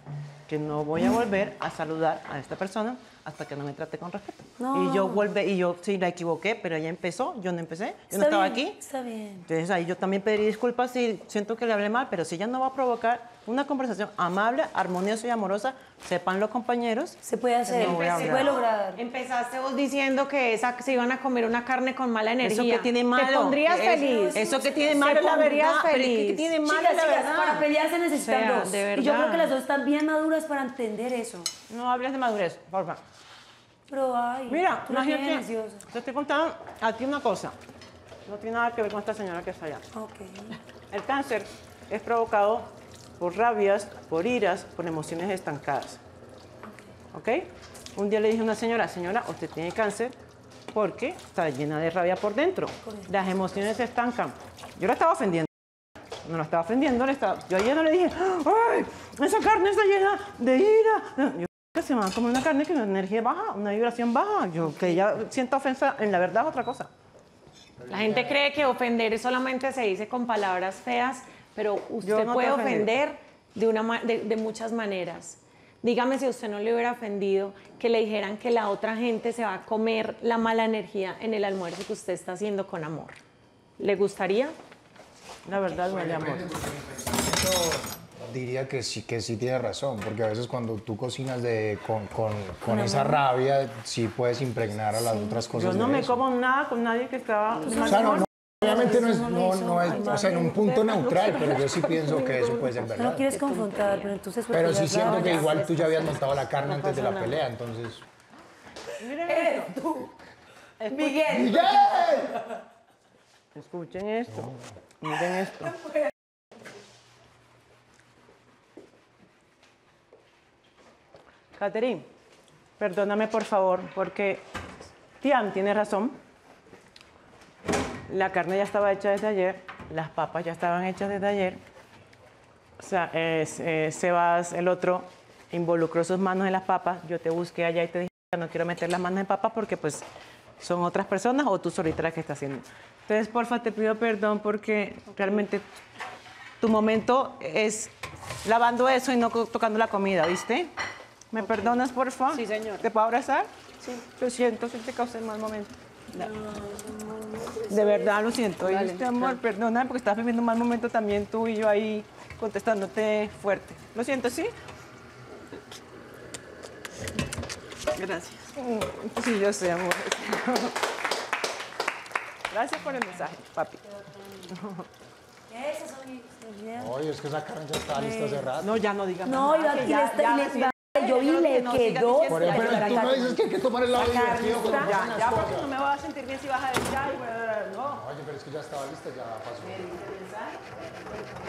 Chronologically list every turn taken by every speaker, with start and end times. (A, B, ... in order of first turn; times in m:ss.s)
0:00.5-0:08.8 A
0:04.6-0:05.2 B
0:08.1-0:09.4 B
0:09.4-0:18.5 A
0:17.2-0:19.0 B
0:17.7-0:26.6 C
0:22.4-0:27.7 A
0:23.9-0:25.4 B
0:26.6-0:31.5 B
0:28.1-0:29.5 C
0:31.7-0:33.0 A
0:33.9-0:35.8 B
0:34.5-0:37.5 A
0:38.2-0:39.9 A
0:39.9-0:40.5 B
0:40.9-0:46.0 A
0:47.1-0:50.2 A
0:50.7-0:55.5 A
0:56.2-1:06.9 A
1:07.8-1:08.4 D
1:07.9-1:23.2 C
1:12.0-1:12.9 A
1:23.8-1:24.5 C
1:25.4-1:26.5 A
1:25.8-1:36.2 D
1:32.7-1:33.2 B
1:35.0-1:35.4 B
1:35.6-1:39.2 A
1:37.6-1:41.2 B
1:37.7-1:43.3 D
1:40.2-1:41.9 A
1:41.9-1:45.8 B
1:43.3-1:44.1 C
1:44.5-1:48.0 D
1:44.9-1:47.4 C
1:49.0-1:50.0 A
1:50.8-1:51.9 A
1:50.9-1:51.7 B
1:51.2-1:52.4 D
1:53.5-1:55.8 A
2:01.5-2:02.1 A
2:02.8-2:04.4 A
2:05.2-2:06.2 A
2:08.1-2:11.6 A
2:12.8-2:20.0 A
2:20.6-2:25.6 A
2:26.6-2:27.9 A
2:28.4-2:30.7 A
2:31.3-2:36.3 A
2:32.4-2:32.7 C
2:36.7-2:37.4 B
2:37.6-2:44.5 A
2:47.9-2:50.8 A
2:52.5-2:53.8 A
2:54.5-2:54.8 A
2:55.5-2:56.9 B
2:56.8-2:58.8 D
2:57.9-2:58.5 B
2:58.6-3:03.4 A
2:59.2-3:03.4 B
3:02.3-3:05.7 D
3:03.9-3:05.0 B
3:04.0-3:08.0 A
3:07.9-3:09.9 D
3:09.8-3:10.6 A